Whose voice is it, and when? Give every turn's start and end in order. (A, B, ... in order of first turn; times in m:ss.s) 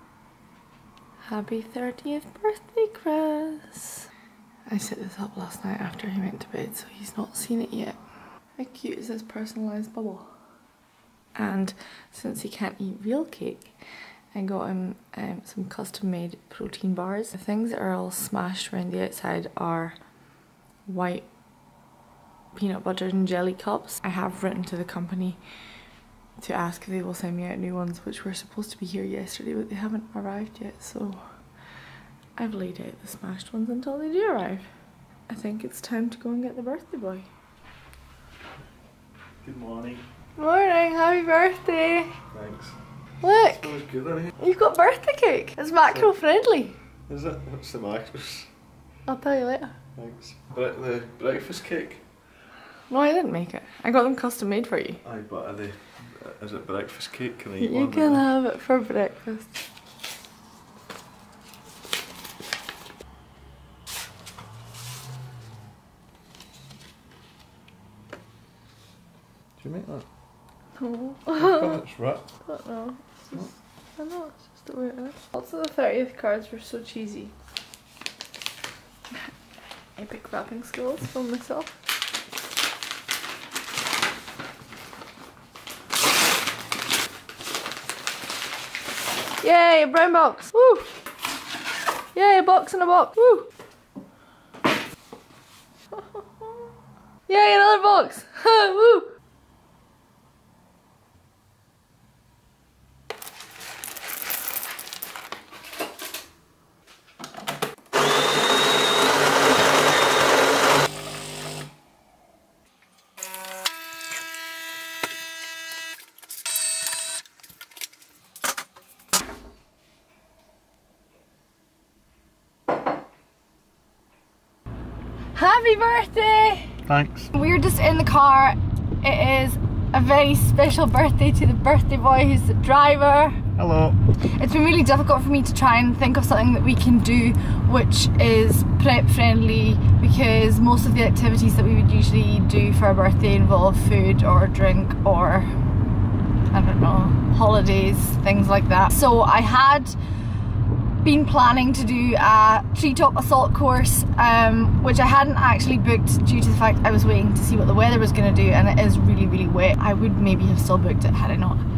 0:01.3-0:04.0 A
0:04.7-0:08.0 A
0:08.6-0:10.3 A
0:11.4-0:13.8 A
0:14.3-0:20.0 A
0:20.9-0:21.3 A
0:22.6-0:25.4 A
0:26.4-0:31.2 A
0:32.4-0:34.6 A
0:35.3-0:37.2 A
0:39.4-0:40.0 B
0:40.4-0:42.1 A
0:42.3-0:42.7 B
0:43.2-0:43.7 A
0:43.3-0:44.3 B
0:44.4-0:46.7 A
0:45.8-0:46.1 B
0:47.1-0:48.5 B
0:49.1-0:49.7 A
0:50.0-0:52.0 B
0:52.9-0:55.0 A
0:55.0-0:58.3 B
0:57.6-0:59.5 A
1:09.6-1:10.0 B
1:10.8-1:11.8 A
1:11.3-1:12.2 B
1:12.5-1:17.3 A
1:20.0-1:21.7 A
1:29.4-1:30.9 A
1:32.1-1:33.5 A
1:37.3-1:39.1 A
2:05.3-2:06.7 A
2:06.9-2:07.3 B
2:07.3-2:13.4 A
2:13.6-2:14.0 B
2:14.4-2:25.5 A
2:26.5-2:30.0 A
2:31.0-2:41.6 A